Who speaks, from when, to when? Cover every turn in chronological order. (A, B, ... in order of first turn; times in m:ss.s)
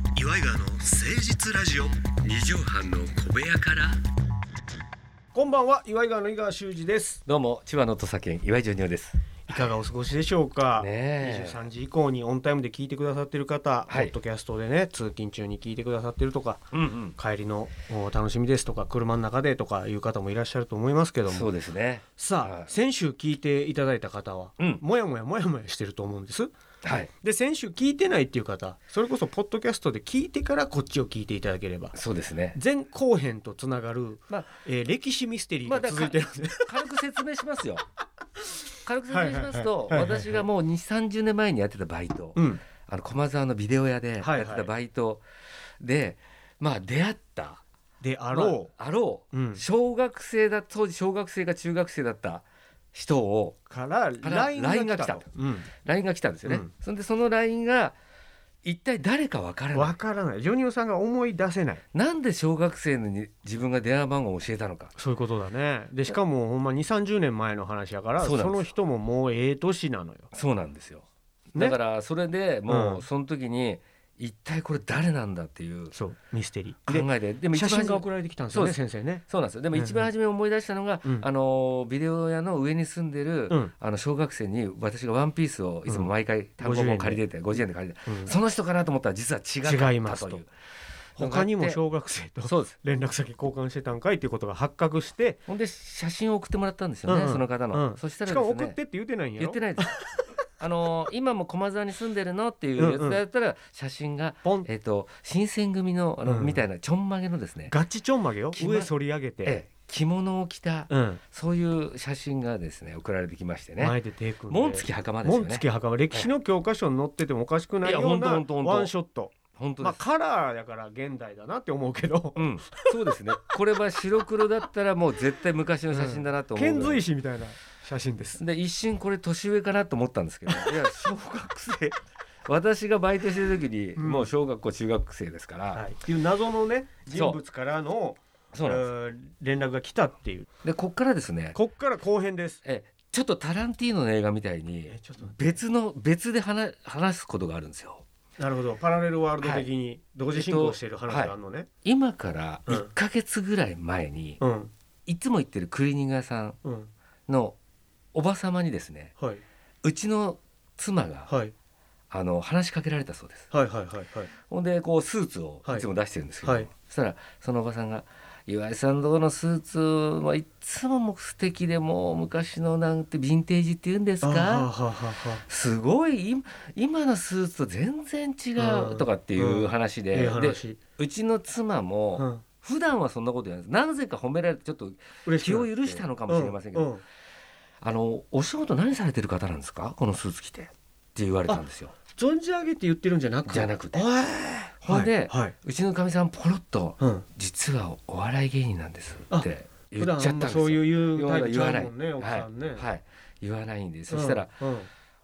0:00.2-0:04.0 A
0:05.3-0:07.2 B
0:07.3-0:09.2 A
0:09.5-0:21.5 B
0:10.8-0:11.6 A
0:13.9-0:14.1 A
0:16.7-0:17.1 A
0:21.2-0:22.7 A
0:22.2-0:26.5 B
0:26.8-0:27.1 A
0:27.2-0:32.0 B
0:31.9-0:32.6 A
0:32.6-0:36.7 B
0:35.6-0:37.8 A
0:38.9-0:45.2 A
0:39.1-0:40.5 B
0:42.4-0:42.6 B
0:44.2-0:44.7 B
0:45.8-0:47.6 A
0:48.0-0:48.7 B
0:48.3-0:53.6 A
0:49.3-0:49.6 B
0:53.7-0:55.7 B
0:54.2-0:55.3 A
0:55.8-0:58.0 A
0:56.4-0:56.7 B
0:58.6-1:00.0 A
0:59.7-1:01.8 B
1:01.9-1:04.9 A
1:05.0-1:10.3 B
1:08.2-1:08.7 A
1:10.3-1:15.9 A
1:12.7-1:13.0 B
1:15.9-1:20.1 B
1:16.9-1:30.5 A
1:25.9-1:27.2 B
1:28.1-1:28.4 B
1:29.6-1:30.4 B
1:31.2-1:31.8 A
1:31.2-1:35.4 B
1:32.4-1:32.8 A
1:35.5-1:38.8 A
1:37.1-1:40.0 B
1:39.4-1:40.0 A
1:40.6-1:47.7 A
1:42.8-1:43.2 B
1:46.2-1:46.6 B
1:47.7-1:49.6 B
1:48.5-1:48.9 A
1:49.4-1:54.0 A
1:50.9-1:51.2 B
1:53.8-2:03.0 B
1:54.5-1:56.3 A
1:57.8-1:58.9 A
1:59.5-2:00.0 A
2:02.4-2:07.0 A
2:05.9-2:08.4 B
2:08.4-2:15.9 A
2:10.5-2:10.7 B
2:14.0-2:14.3 B
2:15.7-2:20.5 B
2:17.1-2:17.4 A
2:18.5-2:18.9 A
2:20.6-2:21.6 A
2:21.5-2:22.6 B
2:22.6-2:28.0 A
2:24.9-2:25.6 B
2:28.4-2:31.7 B
2:29.4-2:29.7 A
2:30.3-2:31.3 A
2:31.8-2:34.4 A
2:34.4-2:34.7 B
2:35.1-2:36.6 A
2:36.6-2:36.9 B
2:37.3-2:37.6 A
2:38.1-2:39.1 A
2:39.8-2:41.3 A
2:41.3-2:41.5 B
2:42.1-2:43.5 A
2:43.5-2:44.3 B
2:44.5-2:54.7 A
2:46.4-2:46.7 B
2:54.2-2:55.4 B
2:55.5-3:06.9 A
2:58.6-3:00.8 B
3:02.2-3:02.4 B
3:05.2-3:07.0 B
3:07.8-3:11.9 A
3:11.5-3:15.6 B
3:13.5-3:14.0 A
3:14.8-3:24.5 A
3:17.0-3:17.3 B
3:19.3-3:22.9 B
3:24.1-3:24.9 B